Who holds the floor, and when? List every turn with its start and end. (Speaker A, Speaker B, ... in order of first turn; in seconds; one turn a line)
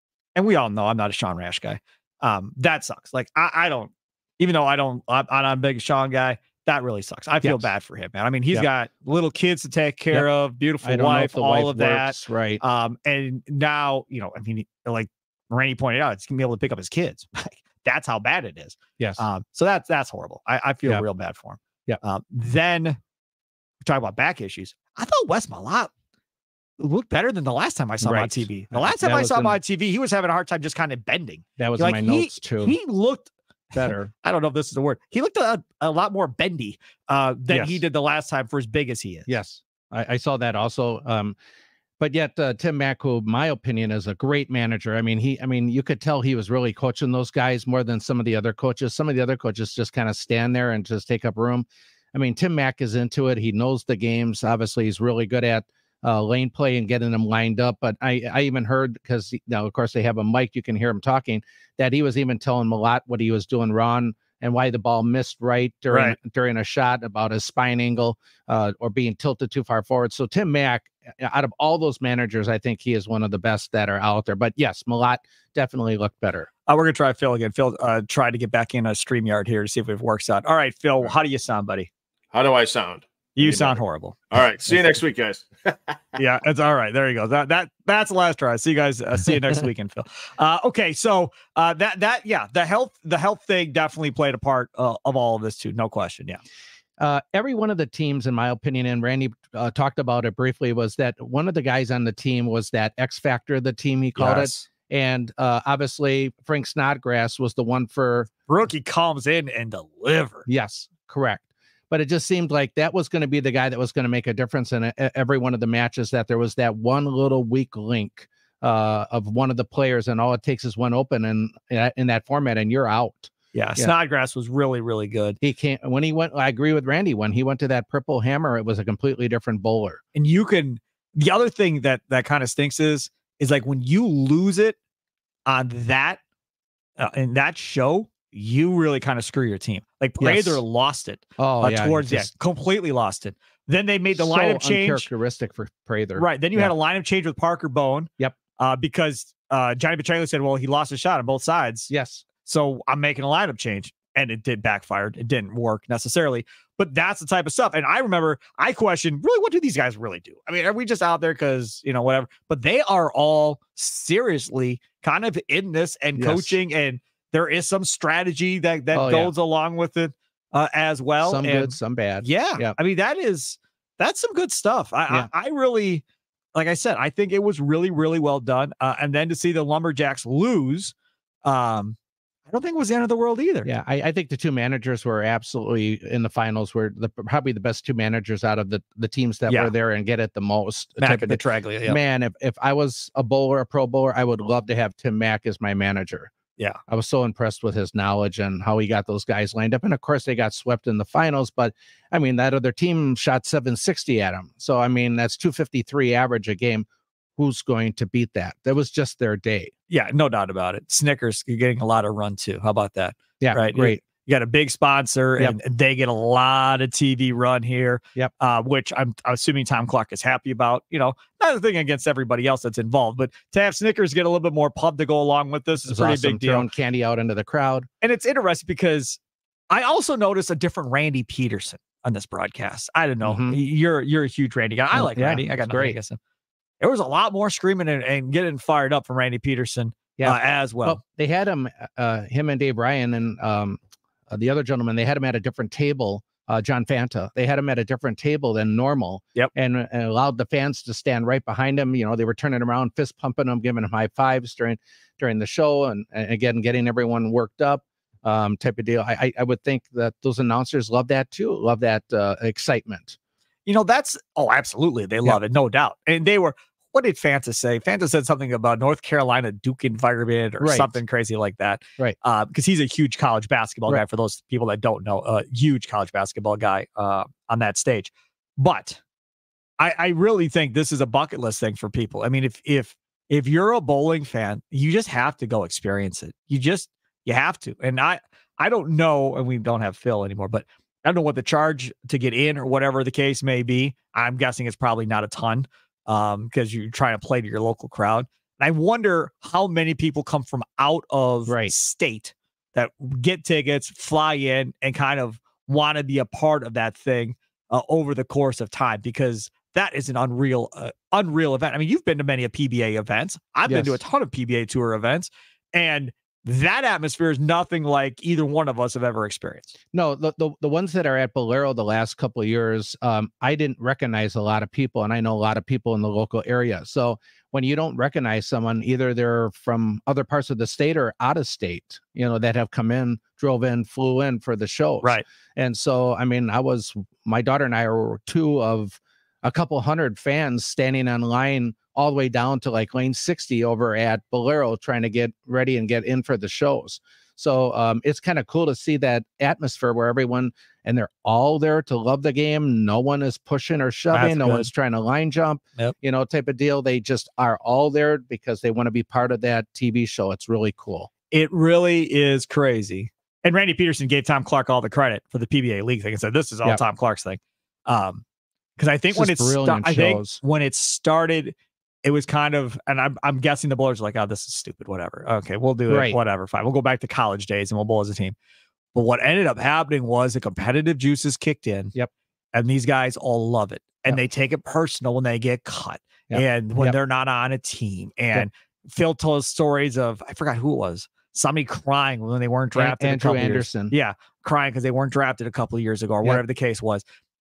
Speaker A: 0.3-23.0
Speaker B: 7.4-7.7
Speaker B: 10.8-12.6
Speaker A: 23.8-25.9
Speaker A: 26.8-39.3
Speaker B: 28.0-29.6
Speaker B: 31.6-32.7
Speaker B: 33.7-34.1
Speaker B: 37.5-37.8
Speaker B: 39.3-41.4
Speaker B: 42.0-76.5
Speaker A: 65.9-66.2
Speaker A: 76.7-81.9
Speaker C: 82.3-83.8
Speaker A: 83.3-84.2
Speaker C: 84.3-86.2
Speaker A: 86.2-96.4
Speaker B: 97.0-108.3
Speaker A: 104.1-104.7
Speaker A: 108.5-110.5
Speaker B: 110.5-123.9
Speaker A: 123.5-125.4
Speaker B: 125.4-130.0
Speaker A: 130.1-134.8
Speaker A: 135.5-136.2
Speaker A: 137.0-145.1
Speaker B: 140.2-140.6
Speaker B: 141.4-142.3
Speaker B: 144.1-146.7
Speaker A: 146.2-151.9
Speaker B: 151.9-152.2
Speaker A: 152.4-176.0
Speaker B: 166.2-166.6
Speaker B: 168.9-169.3
Speaker B: 171.2-172.8
Speaker A: 176.5-181.9
Speaker A: 182.5-183.7
Speaker B: 183.6-196.3
Speaker A: 191.0-192.0
Speaker B: 196.9-206.8
Speaker B: 207.4-209.7
Speaker A: 209.9-226.7
Speaker B: 213.4-214.0
Speaker B: 225.9-227.9
Speaker A: 228.0-229.2
Speaker A: 229.7-236.2
Speaker B: 233.2-233.6
Speaker B: 234.9-236.0
Speaker A: 236.8-241.0
Speaker B: 240.2-263.2
Speaker A: 263.6-279.0
Speaker B: 270.6-270.9
Speaker A: 279.8-319.8
Speaker B: 301.5-301.7
Speaker B: 313.7-314.0
Speaker B: 319.9-361.1
Speaker A: 354.1-354.7
Speaker A: 361.3-368.2
Speaker A: 368.8-378.3
Speaker B: 369.1-370.4
Speaker B: 375.9-376.2
Speaker A: 378.9-381.9
Speaker A: 382.5-397.0
Speaker B: 386.3-386.9
Speaker B: 392.7-393.9